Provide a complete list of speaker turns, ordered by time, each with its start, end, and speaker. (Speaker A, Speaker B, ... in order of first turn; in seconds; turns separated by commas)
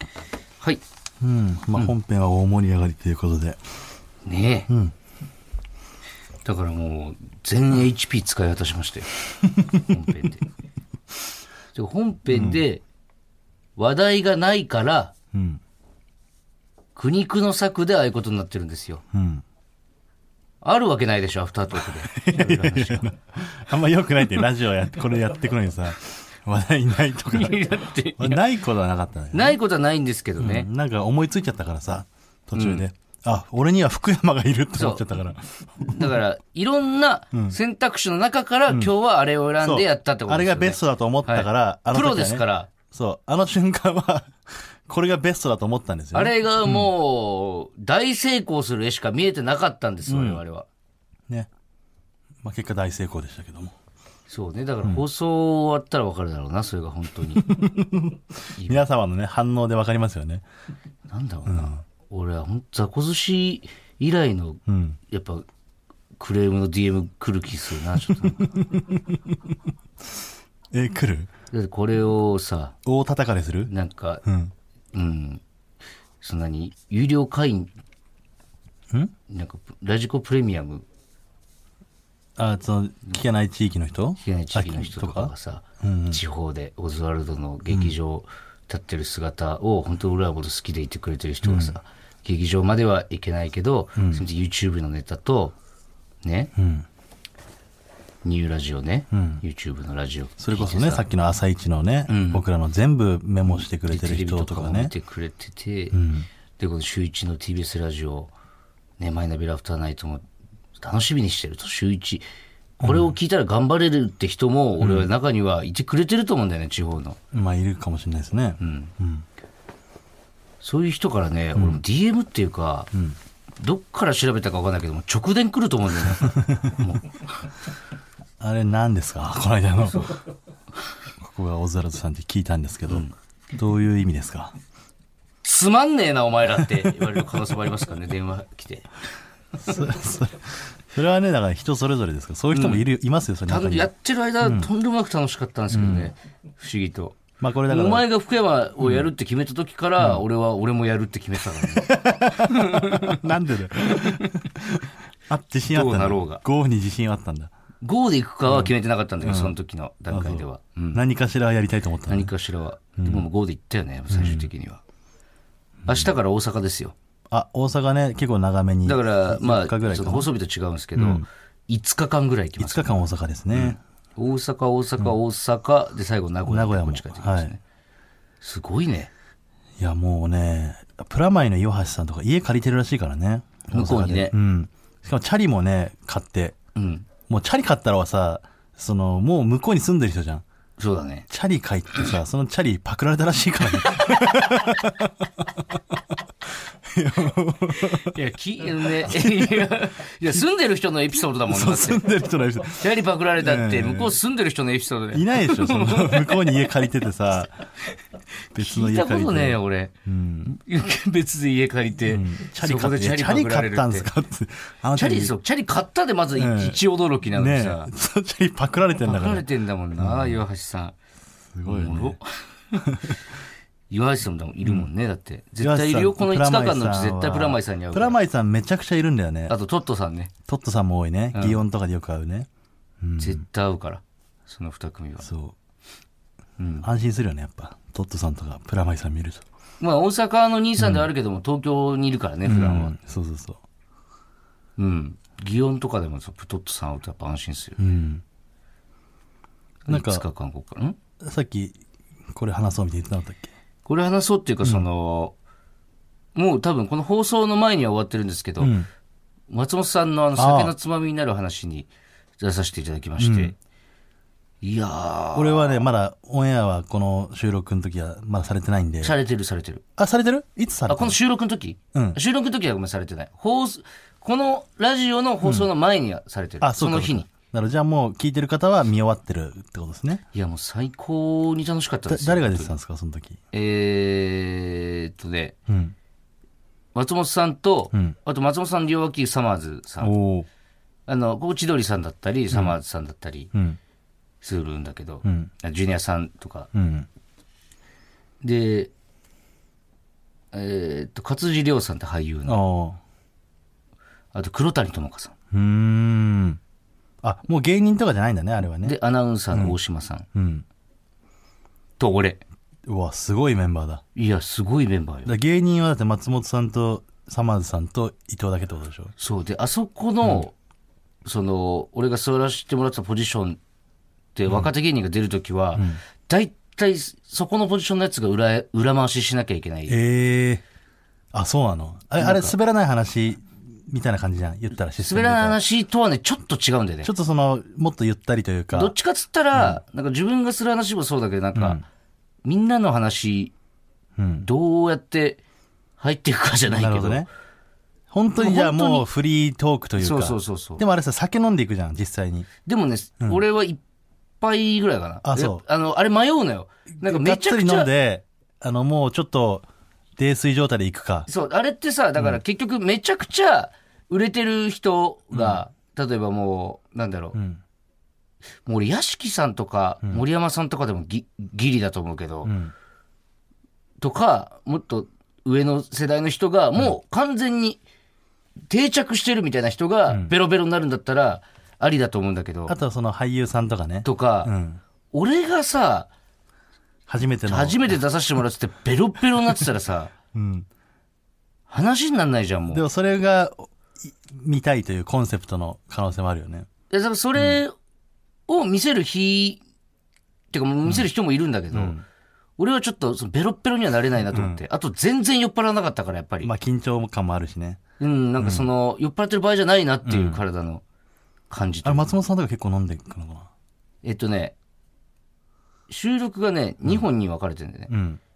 Speaker A: 1.2-3.6, Speaker B: 4.2-4.7, Speaker A: 4.7-4.9, Speaker B: 6.5-9.1, Speaker A: 9.5-9.8, Speaker B: 9.8-10.4, Speaker B: 11.7-12.8, Speaker A: 12.3-12.6, Speaker B: 13.8-15.1, Speaker A: 15.3-15.6, Speaker B: 16.9-19.0, Speaker A: 19.1-19.4, Speaker B: 20.6-23.1, Speaker A: 21.9-29.6, Speaker B: 27.3-28.4, Speaker B: 29.3-30.7, Speaker A: 30.4-36.2, Speaker B: 32.5-32.9, Speaker B: 34.8-35.1, Speaker B: 35.8-42.7, Speaker A: 37.3-37.6, Speaker A: 39.6-46.9, Speaker B: 46.1-50.7, Speaker A: 50.1-50.4, Speaker A: 52.4-53.7, Speaker B: 54.3-57.5, Speaker A: 57.4-60.5, Speaker B: 58.6-58.8, Speaker B: 61.1-65.5, Speaker A: 61.5-61.8, Speaker A: 64.7-65.0, Speaker B: 66.2-68.7, Speaker A: 68.1-69.6, Speaker A: 70.7-71.3, Speaker B: 71.5-72.8, Speaker A: 72.9-73.7, Speaker B: 73.7-74.2, Speaker A: 74.2-74.5, Speaker B: 74.9-75.4, Speaker B: 76.2-77.7, Speaker B: 79.3-80.9, Speaker A: 82.4-86.2, Speaker B: 84.2-95.6, Speaker A: 91.4-91.8, Speaker A: 94.0-94.2, Speaker B: 96.2-96.5, Speaker A: 96.6-96.9, Speaker B: 98.2-101.0, Speaker A: 99.1-99.4, Speaker A: 100.4-104.9, Speaker B: 102.1-102.4, Speaker B: 103.5-106.0, Speaker A: 105.9-106.3, Speaker B: 106.6-108.3, Speaker B: 109.0-110.2, Speaker B: 110.8-112.2, Speaker B: 112.8-117.2, Speaker A: 112.8-113.2, Speaker A: 114.8-115.1, Speaker A: 117.3-119.3, Speaker B: 118.6-118.9, Speaker B: 120.6-122.9, Speaker A: 121.5-121.8, Speaker B: 123.6-127.1, Speaker A: 126.2-126.8, Speaker A: 128.4-130.1, Speaker B: 129.9-130.2, Speaker A: 131.2-134.5, Speaker B: 132.9-133.1, Speaker B: 135.4-138.9, Speaker A: 139.6-143.9, Speaker B: 142.5-142.8, Speaker B: 143.5-153.2, Speaker A: 144.4-144.7, Speaker A: 145.7-146.1, Speaker A: 147.4-148.1, Speaker A: 148.8-149.1, Speaker A: 151.8-157.5, Speaker B: 153.9-154.3, Speaker B: 155.7-156.4, Speaker B: 157.8-161.0, Speaker A: 158.5-159.6, Speaker A: 160.1-162.3, Speaker B: 162.1-164.8, Speaker A: 163.0-163.2, Speaker A: 164.1-164.5, Speaker A: 165.8-166.1, Speaker B: 165.9-166.9, Speaker A: 167.3-170.3, Speaker B: 168.8-177.6, Speaker A: 171.0-171.3, Speaker A: 172.6-173.8, Speaker A: 176.5-177.5, Speaker B: 178.4-179.1, Speaker A: 179.8-186.6, Speaker B: 183.7-184.3, Speaker B: 186.8-187.1, Speaker A: 187.3-190.4, Speaker B: 190.8-191.3, Speaker A: 191.3-195.8, Speaker B: 193.8-194.3, Speaker A: 196.7-198.2, Speaker B: 197.8-202.0, Speaker A: 199.0-199.7, Speaker A: 201.5-204.2, Speaker B: 202.7-206.8, Speaker A: 205.1-207.5, Speaker A: 208.5-210.6, Speaker B: 208.6-209.9, Speaker B: 210.5-214.1, Speaker A: 212.1-215.3, Speaker B: 214.9-217.9, Speaker A: 216.4-216.8, Speaker A: 217.3-220.5, Speaker B: 219.0-220.9, Speaker A: 221.6-222.2, Speaker B: 221.7-222.9, Speaker A: 222.9-223.2, Speaker B: 223.9-228.2, Speaker A: 225.6-229.6, Speaker B: 229.5-230.3, Speaker A: 230.5-232.5, Speaker B: 231.3-231.6, Speaker A: 233.0-233.4, Speaker B: 233.2-235.3, Speaker A: 235.2-235.6, Speaker B: 236.6-236.9, Speaker A: 236.8-239.4, Speaker B: 239.8-242.9, Speaker A: 240.8-241.1, Speaker A: 242.4-243.6, Speaker B: 244.8-247.8, Speaker A: 247.8-248.2, Speaker B: 249.9-251.0, Speaker A: 249.9-250.2, Speaker A: 251.2-251.8, Speaker A: 252.3-253.5, Speaker B: 253.9-255.3, Speaker B: 256.4-258.8, Speaker A: 258.6-258.9, Speaker B: 259.5-263.6, Speaker A: 260.4-260.7, Speaker A: 263.2-263.5, Speaker B: 264.6-265.9, Speaker A: 265.4-269.2, Speaker B: 269.0-269.8, Speaker A: 270.0-271.2, Speaker B: 270.9-277.3, Speaker A: 271.9-272.2, Speaker A: 275.4-275.7, Speaker A: 276.6-280.2, Speaker B: 280.3-282.7, Speaker A: 282.1-283.4, Speaker B: 283.5-285.6, Speaker A: 285.7-285.9, Speaker B: 286.9-290.1, Speaker A: 290.0-290.5, Speaker B: 291.1-293.5, Speaker A: 292.5-292.8, Speaker A: 293.5-293.8, Speaker B: 294.4-296.7, Speaker A: 295.2-295.5, Speaker A: 296.7-297.1, Speaker B: 298.4-298.9, Speaker B: 300.5-302.6, Speaker A: 302.5-303.0, Speaker B: 304.3-305.3, Speaker A: 305.5-306.6, Speaker A: 307.2-309.0, Speaker B: 308.8-310.2, Speaker A: 310.3-310.6, Speaker B: 312.0-312.4, Speaker A: 312.9-314.0, Speaker B: 314.1-315.3, Speaker A: 315.3-319.1, Speaker B: 319.2-320.5, Speaker B: 321.2-323.6, Speaker B: 324.4-330.0, Speaker A: 325.8-326.0, Speaker A: 329.9-330.6, Speaker A: 331.3-335.6, Speaker B: 332.2-332.5, Speaker B: 335.0-337.1, Speaker A: 337.0-338.9, Speaker B: 338.7-341.8, Speaker A: 339.5-339.8, Speaker A: 341.6-341.9, Speaker B: 342.4-343.5, Speaker A: 344.2-344.5, Speaker B: 344.4-345.4, Speaker B: 346.0-347.2, Speaker A: 346.7-347.3, Speaker A: 348.1-352.5, Speaker B: 348.4-349.1, Speaker B: 350.0-350.8, Speaker B: 352.6-353.8, Speaker B: 354.4-357.9, Speaker A: 355.2-355.6, Speaker A: 356.9-359.6, Speaker A: 360.2-361.3, Speaker B: 361.3-367.4, Speaker A: 365.3-365.6, Speaker A: 367.3-367.6, Speaker B: 368.6-372.5, Speaker A: 372.4-372.7, Speaker B: 374.0-377.8, Speaker B: 378.7-382.8, Speaker A: 380.1-380.3, Speaker A: 382.7-384.8, Speaker B: 384.0-384.5, Speaker B: 385.1-386.1, Speaker A: 387.1-388.0, Speaker B: 387.5-390.1, Speaker A: 390.3-390.7, Speaker B: 391.7-392.8, Speaker A: 392.7-396.7, Speaker B: 396.9-397.7, Speaker B: 398.5-399.6, Speaker B: 400.5-402.0, Speaker A: 401.7-402.0, Speaker B: 402.6-406.5, Speaker A: 404.3-404.6, Speaker A: 406.4-407.8, Speaker B: 408.0-410.8, Speaker A: 408.4-408.7, Speaker A: 410.1-410.4, Speaker B: 411.5-412.1, Speaker A: 411.8-413.5, Speaker B: 414.0-414.6, Speaker B: 415.9-417.9, Speaker A: 417.9-418.2